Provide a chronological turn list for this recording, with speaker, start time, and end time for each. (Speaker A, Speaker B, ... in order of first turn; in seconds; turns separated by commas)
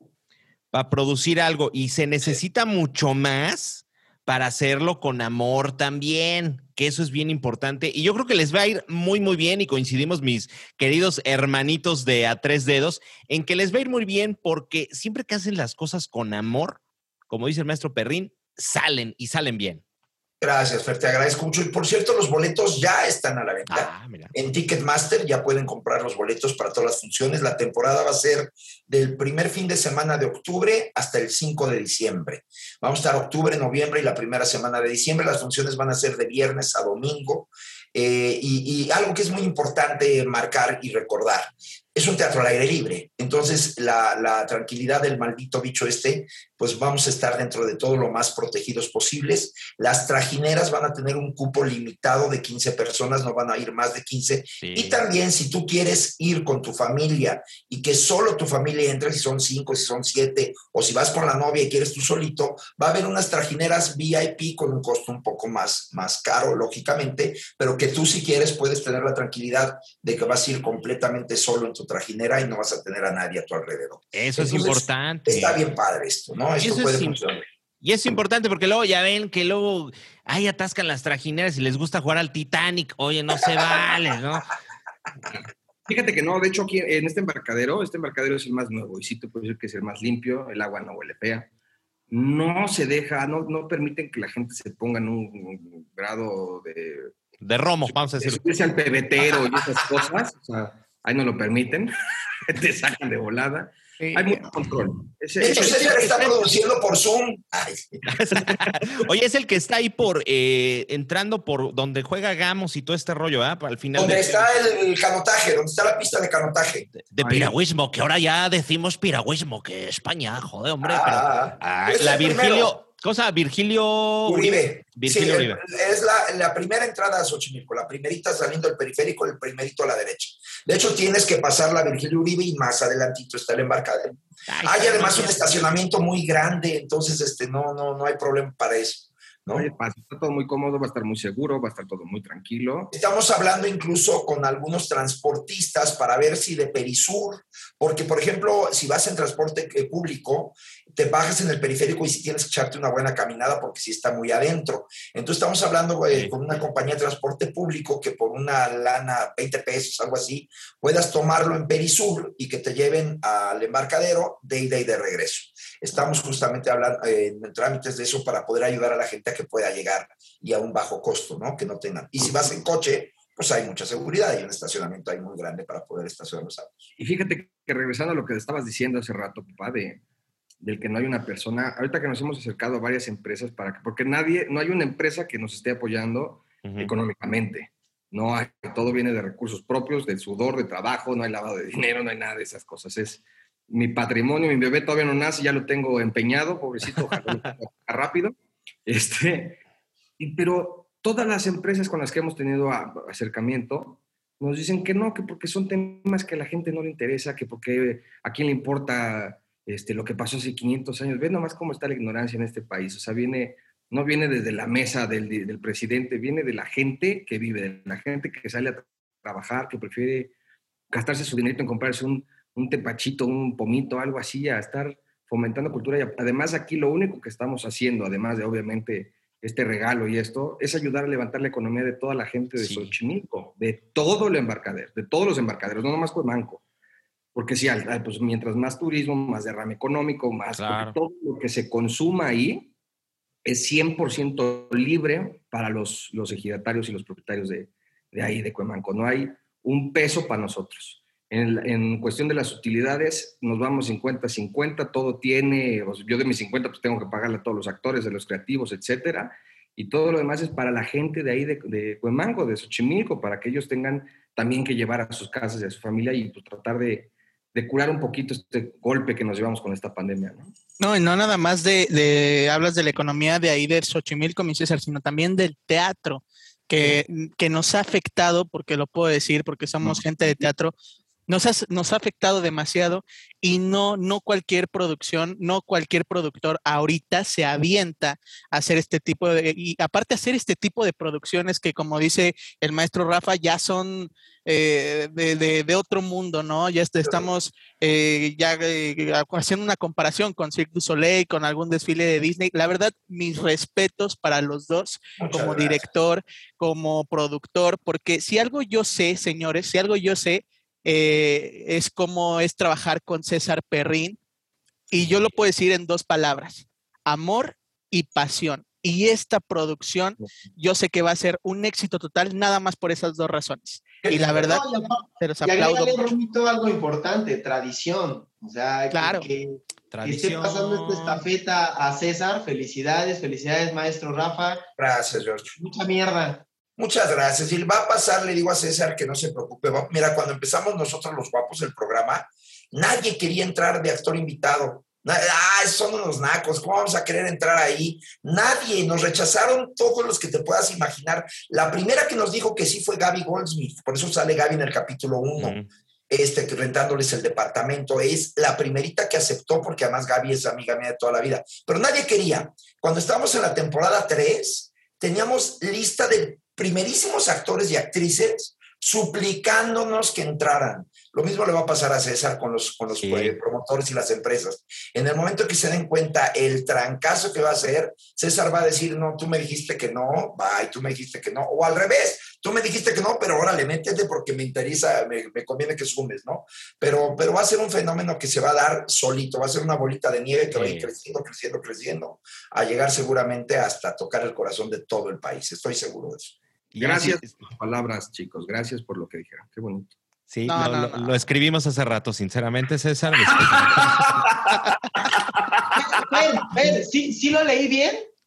Speaker A: 0.7-19.8, Speaker B: 20.4-77.4, Speaker A: 23.7-24.3, Speaker A: 54.6-55.0, Speaker A: 74.1-75.6, Speaker A: 76.6-77.2, Speaker A: 77.8-84.5, Speaker C: 85.9-91.5, Speaker C: 92.1-97.1, Speaker A: 97.4-98.6, Speaker C: 97.9-101.9, Speaker C: 102.5-106.3, Speaker D: 104.0-104.5, Speaker B: 105.4-108.0, Speaker A: 108.1-114.5, Speaker B: 114.0-116.9, Speaker A: 117.1-125.6, Speaker C: 117.2-117.5, Speaker B: 120.8-122.8, Speaker B: 124.2-139.7, Speaker A: 134.5-135.4, Speaker C: 139.5-142.9, Speaker B: 142.9-176.9, Speaker A: 156.1-156.4, Speaker C: 176.9-180.0, Speaker C: 180.6-199.6, Speaker A: 186.6-186.9, Speaker C: 200.2-220.3, Speaker C: 220.9-236.6, Speaker A: 232.6-232.9, Speaker C: 237.3-242.7, Speaker A: 240.6-241.0, Speaker C: 243.4-270.5, Speaker D: 270.8-280.7, Speaker D: 281.3-314.2, Speaker B: 297.0-297.3, Speaker B: 305.2-305.9, Speaker D: 314.9-324.6, Speaker E: 324.0-334.6, Speaker D: 325.2-326.1, Speaker D: 328.9-329.3, Speaker A: 329.9-331.2, Speaker B: 334.8-335.6, Speaker E: 335.6-336.4, Speaker B: 336.8-355.6, Speaker A: 355.4-355.6, Speaker B: 356.1-396.4, Speaker A: 373.0-373.4, Speaker A: 390.5-390.9, Speaker A: 396.7-397.5, Speaker C: 396.8-399.9, Speaker A: 400.3-404.2, Speaker D: 400.4-401.1, Speaker C: 403.3-404.6, Speaker C: 405.4-405.7, Speaker E: 405.8-408.0